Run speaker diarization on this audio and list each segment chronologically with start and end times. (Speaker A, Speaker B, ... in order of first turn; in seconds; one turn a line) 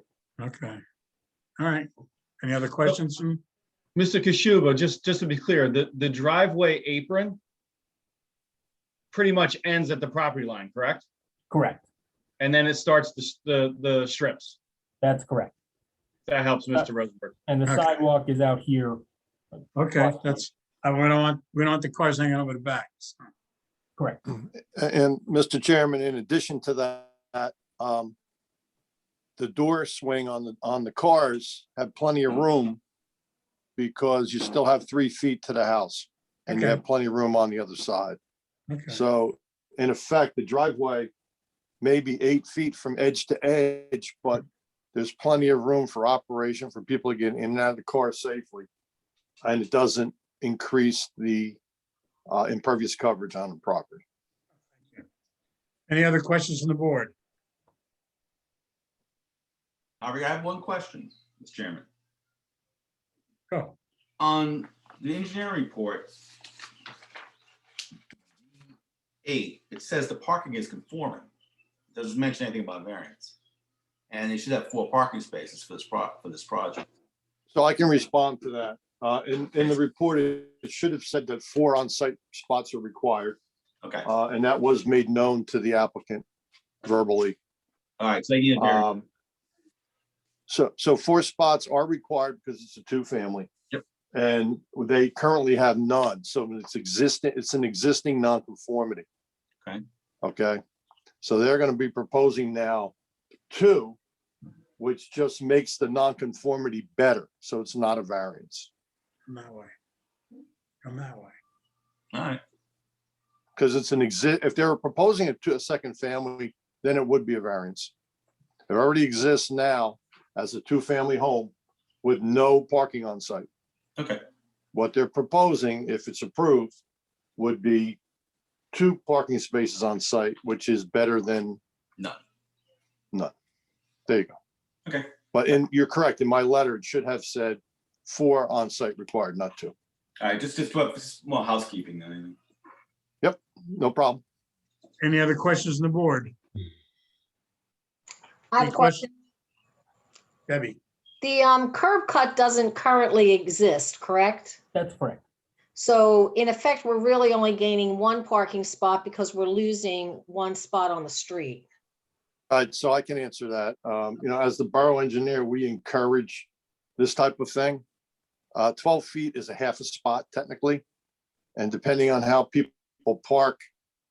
Speaker A: 0.4-0.8
Speaker A: 1.6-1.9
Speaker A: 2.4-3.4
Speaker B: 4.0-7.4
Speaker B: 9.1-11.1
Speaker C: 11.5-11.8
Speaker B: 12.4-14.6
Speaker C: 15.0-15.5
Speaker B: 16.3-17.3
Speaker C: 17.5-19.0
Speaker A: 19.8-23.1
Speaker C: 19.9-20.4
Speaker D: 24.3-28.1
Speaker D: 29.4-32.8
Speaker D: 33.8-38.2
Speaker A: 36.5-36.8
Speaker A: 38.7-39.0
Speaker D: 38.9-41.1
Speaker D: 41.8-48.7
Speaker D: 49.4-51.6
Speaker D: 52.3-54.0
Speaker A: 55.9-57.1
Speaker E: 60.0-61.9
Speaker E: 64.2-66.2
Speaker E: 69.2-71.3
Speaker E: 71.9-73.3
Speaker E: 74.1-76.8
Speaker D: 77.5-83.4
Speaker E: 83.8-84.1
Speaker D: 84.0-86.2
Speaker D: 86.8-87.4
Speaker E: 88.0-89.0
Speaker D: 88.5-89.0
Speaker D: 90.5-93.5
Speaker D: 94.1-99.0
Speaker D: 100.2-100.6
Speaker D: 101.2-102.9
Speaker D: 103.5-104.0
Speaker D: 104.8-108.7
Speaker A: 109.3-109.7
Speaker A: 110.8-111.3
Speaker E: 112.1-112.4
Speaker D: 113.5-117.9
Speaker D: 118.7-123.5
Speaker E: 124.0-124.2
Speaker D: 124.7-126.8
Speaker D: 127.4-128.0
Speaker D: 128.7-131.6
Speaker D: 134.1-134.3
Speaker E: 134.9-135.1
Speaker D: 135.3-139.7
Speaker E: 140.2-142.4
Speaker D: 143.2-144.2
Speaker A: 145.0-146.3
Speaker F: 148.5-149.1
Speaker A: 148.6-149.1
Speaker A: 150.5-150.8
Speaker F: 151.2-154.6
Speaker C: 154.7-155.2
Speaker F: 155.8-161.6
Speaker D: 162.5-167.8
Speaker D: 168.6-170.8
Speaker D: 171.6-173.6